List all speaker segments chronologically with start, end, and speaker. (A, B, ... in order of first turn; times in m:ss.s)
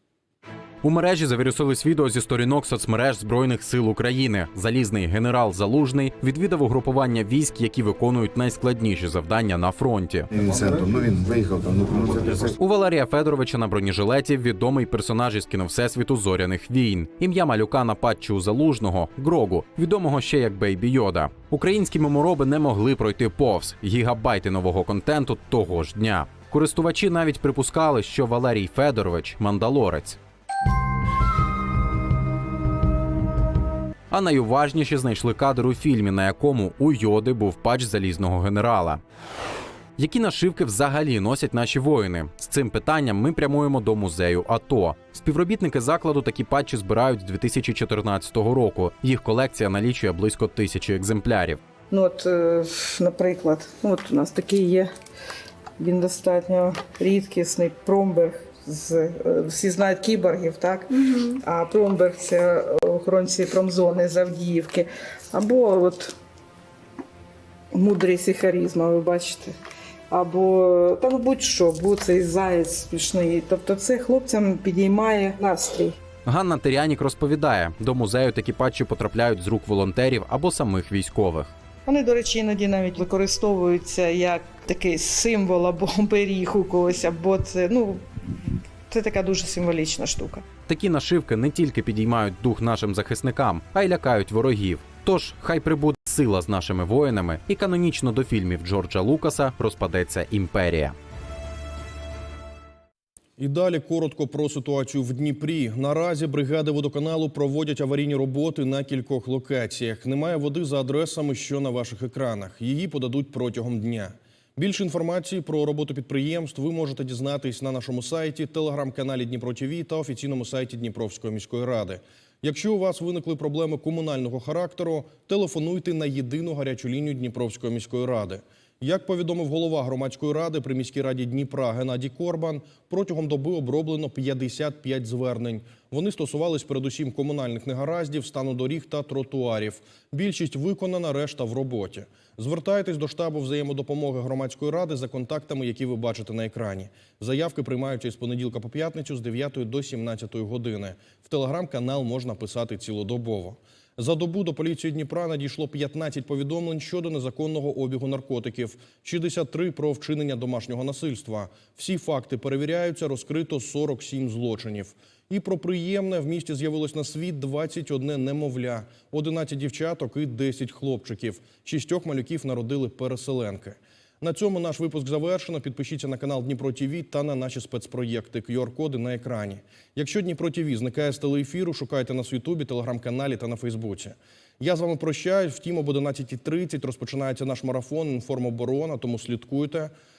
0:00.8-0:10.3 A
0:10.3-0:12.6 B
0:12.6-0:30.2 A
0:34.1-0:39.0 A
0:40.0-0:51.6 A
0:51.9-0:54.9 C
0:55.8-1:06.1 C
1:07.7-1:09.5 C
1:10.1-1:16.0 C
1:16.2-1:21.5 A
1:21.9-1:28.0 C
1:28.9-1:30.4 C
1:30.7-1:41.0 A
1:43.4-3:09.9 D